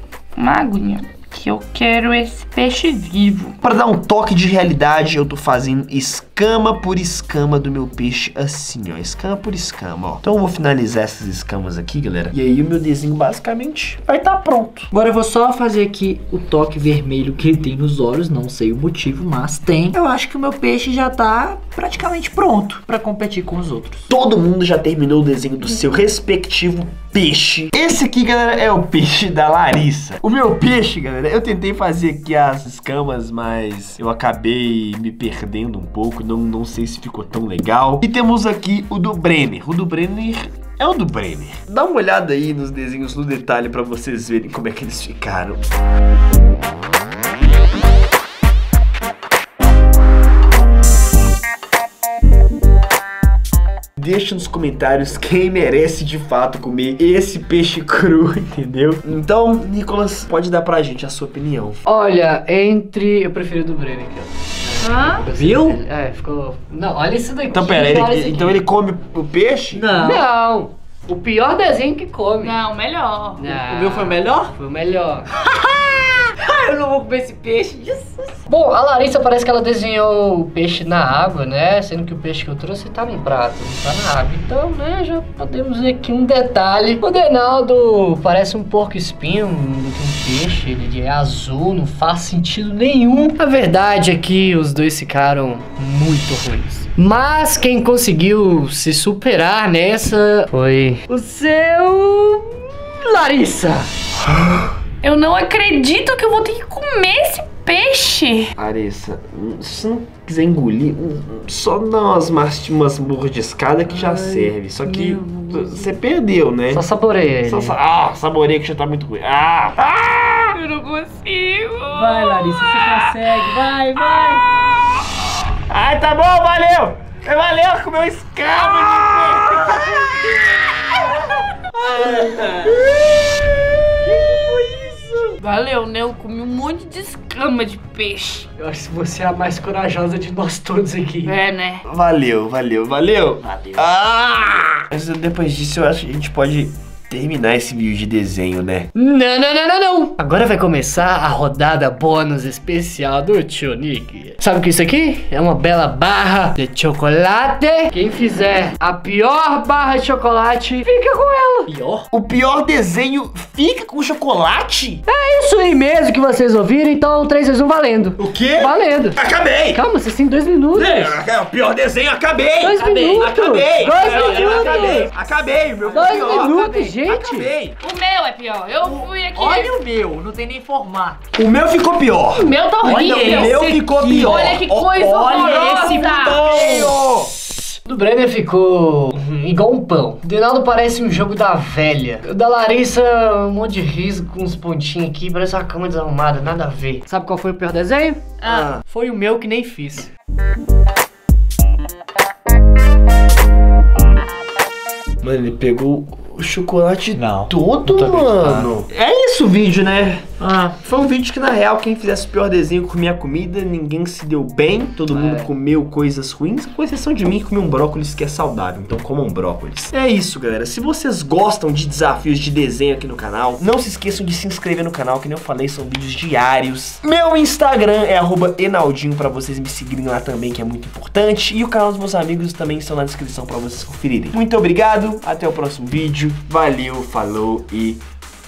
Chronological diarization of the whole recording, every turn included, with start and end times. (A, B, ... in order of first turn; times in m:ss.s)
0:00.4-0:03.6 A
0:03.6-0:14.9 B
0:14.9-0:24.1 C
0:24.1-0:45.6 B
0:54.0-1:01.8 B
1:01.9-1:08.6 D
1:04.8-1:05.3 A
1:05.3-1:05.8 C
1:07.5-1:09.9 B
1:09.7-1:10.3 C
1:10.0-1:12.6 D
1:12.4-1:13.4 A
1:13.4-1:15.3 D
1:13.5-1:14.5 C
1:15.4-1:18.4 C
1:18.5-1:43.9 D
1:44.4-1:44.7 B
1:45.0-1:48.5 A
1:48.6-1:56.8 B
1:54.1-1:55.9 A
1:56.7-1:57.8 D
1:57.4-2:00.6 B
2:00.5-2:03.5 A
2:01.9-2:04.4 C
2:04.1-2:04.8 B
2:05.7-2:10.7 B
2:12.0-2:12.5 C
2:12.0-2:12.5 B
2:12.1-2:12.7 D
2:14.1-2:15.4 D
2:15.4-2:18.5 A
2:18.6-2:21.4 D
2:21.2-2:21.8 A
2:21.8-2:28.9 B
2:23.6-2:23.8 C
2:29.0-2:41.7 D
2:41.7-2:42.0 C
2:42.1-2:45.0 B
2:45.1-2:51.2 D
2:48.2-2:49.8 B
2:50.7-2:57.8 B
2:52.6-2:55.1 D
2:52.7-2:53.3 C
2:53.9-2:55.1 C
2:55.8-2:57.0 C
2:55.9-2:57.5 D
2:57.8-2:59.8 A
2:58.8-3:01.2 C
3:01.4-3:07.2 B
3:02.3-3:06.5 A
3:02.8-3:07.0 C
3:07.9-3:20.1 D
3:18.4-3:18.7 A
3:18.4-3:18.8 B
3:25.2-3:58.0 B
3:27.1-3:28.7 C
3:30.4-3:30.7 C
3:35.1-3:35.4 D